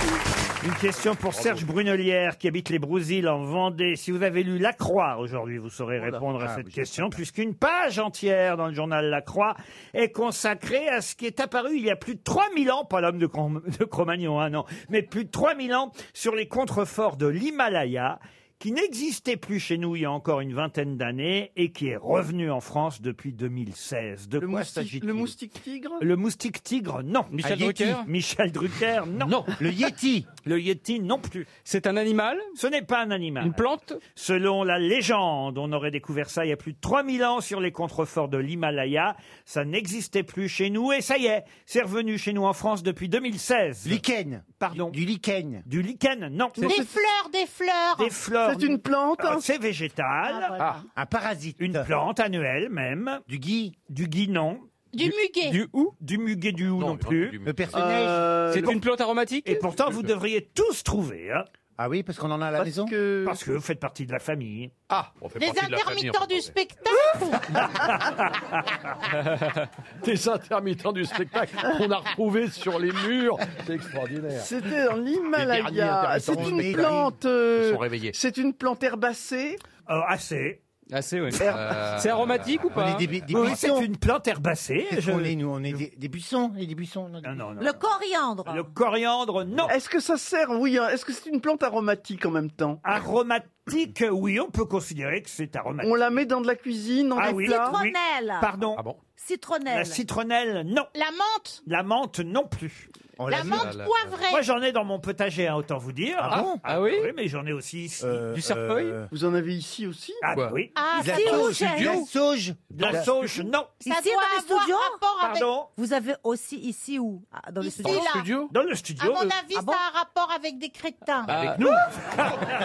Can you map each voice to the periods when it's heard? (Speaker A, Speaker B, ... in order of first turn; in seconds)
Speaker A: 0.6-25.3, 26.0-29.4, 30.4-31.5, 32.6-33.6, 34.1-44.0, 44.6-45.0, 45.6-46.8, 48.0-50.5, 51.6-53.2, 53.9-54.7, 56.0-57.4, 58.6-58.8, 59.4-61.5, 63.2-64.7, 67.7-68.3, 79.9-80.6, 83.3-85.8, 87.2-87.8, 88.5-89.7, 92.8-96.0, 97.2-98.8, 99.7-100.9, 101.7-102.9, 104.3-108.3, 110.2-110.7, 112.7-113.8, 115.2-115.7, 118.5-119.3
Speaker B: 1.3-1.6, 29.2-29.5, 56.8-58.0, 64.9-66.5, 70.0-74.5, 75.3-78.2, 81.4-82.6, 98.7-99.0, 103.5-104.0, 110.3-110.6, 111.3-112.0, 117.8-118.5, 121.2-121.9
Speaker C: 6.4-7.2, 29.6-30.3, 43.8-45.6, 51.0-51.9, 53.3-53.7, 57.4-58.3, 61.8-62.9, 76.2-77.1, 82.7-83.9, 84.9-87.5, 103.2-103.7, 106.2-106.6, 108.0-109.1, 110.9-113.1
Speaker D: 24.4-26.0, 46.6-46.9, 48.4-49.5, 57.7-58.8, 62.6-63.4, 74.3-79.6, 89.7-92.8, 95.8-97.8, 109.1-110.2
Speaker E: 27.3-28.1, 31.6-32.5, 33.4-34.0, 55.0-55.9, 58.5-59.6, 80.9-83.1, 106.6-107.1, 108.3-109.0, 121.3-121.7
Speaker F: 46.6-48.1, 50.2-50.8, 54.9-55.6, 65.4-67.7, 100.9-101.6, 103.3-104.4, 110.7-112.0, 113.8-115.5, 117.6-118.3, 119.0-121.3
Speaker G: 87.6-88.7, 97.2-98.5, 99.2-100.0, 113.8-115.0, 115.8-118.1, 119.5-119.8